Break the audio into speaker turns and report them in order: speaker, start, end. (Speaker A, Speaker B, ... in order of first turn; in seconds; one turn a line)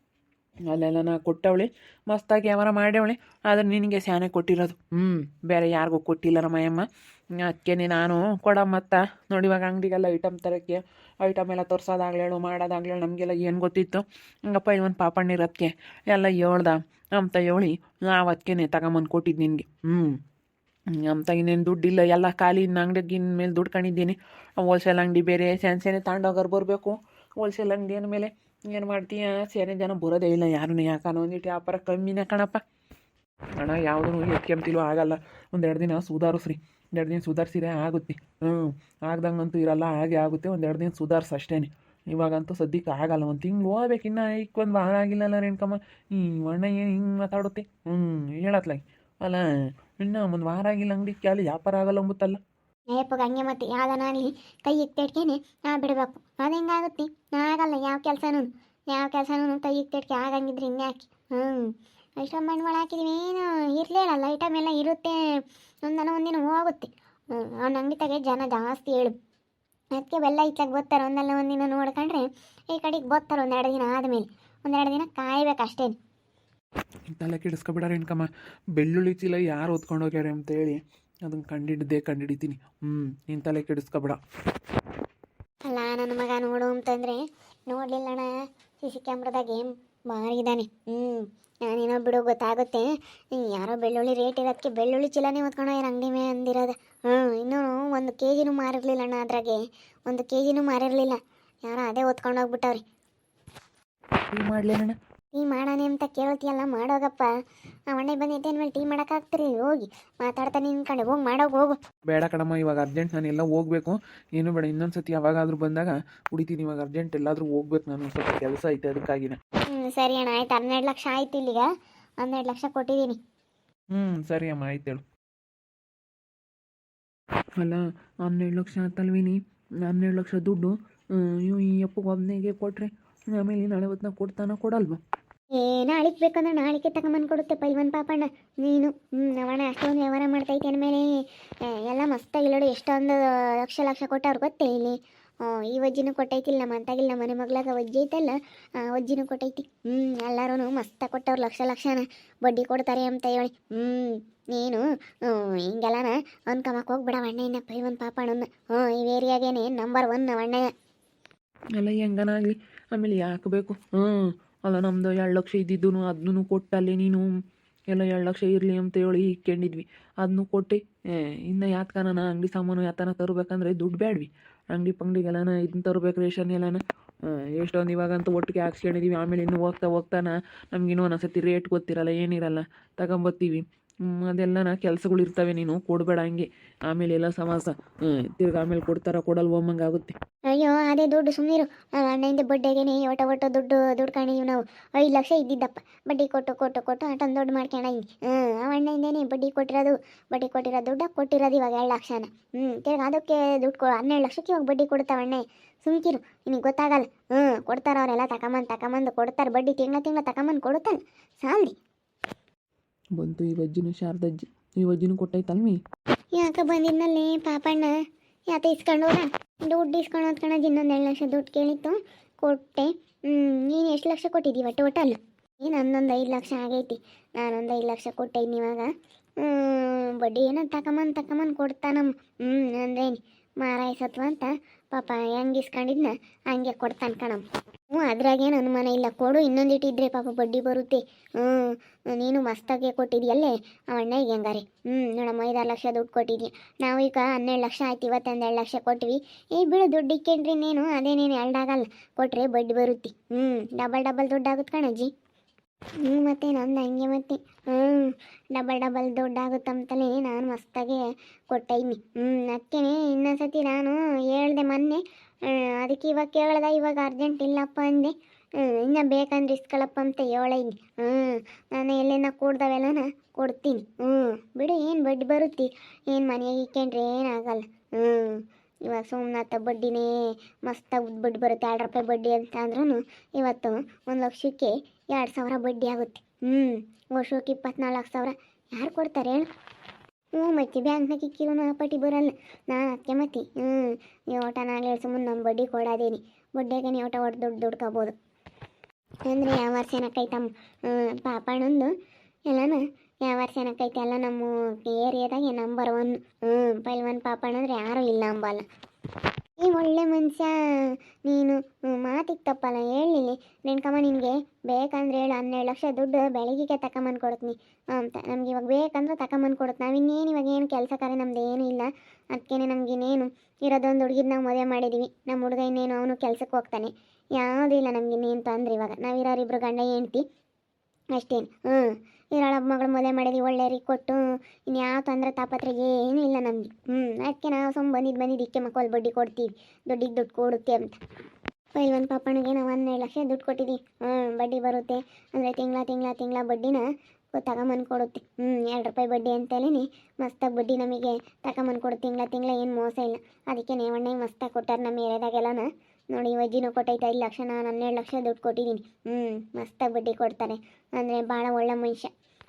Speaker A: 0.7-20.2
Speaker A: 20.9-32.6
Speaker A: 33.6-49.4
Speaker A: 50.0-52.4
Speaker B: 52.9-65.2
Speaker B: 65.8-69.2
Speaker B: 70.0-75.9
Speaker A: 77.1-84.2
Speaker B: 85.7-102.8
Speaker A: 104.3-105.0
Speaker B: 105.3-107.3
Speaker B: 107.9-111.8
Speaker A: 112.1-119.4
Speaker B: 119.7-121.7
Speaker B: 122.2-123.2
Speaker A: 123.9-125.0
Speaker A: 127.6-135.0
Speaker B: 135.6-141.1
Speaker B: 141.7-160.7
Speaker A: 161.8-167.3
Speaker A: 167.9-190.2
Speaker B: 190.5-211.8
Speaker A: 213.2-215.8
Speaker B: 216.3-217.9
Speaker B: 218.5-228.9
Speaker B: 229.4-255.1
Speaker B: 256.0-280.1
Speaker B: 280.7-289.5
Speaker B: 290.4-298.1
Speaker B: 299.3-301.9
Speaker B: 302.5-308.6
Speaker B: 309.6-310.5
Speaker B: 311.3-330.2
Speaker B: 331.2-340.9
Speaker B: 341.8-346.8
Speaker B: 347.4-362.1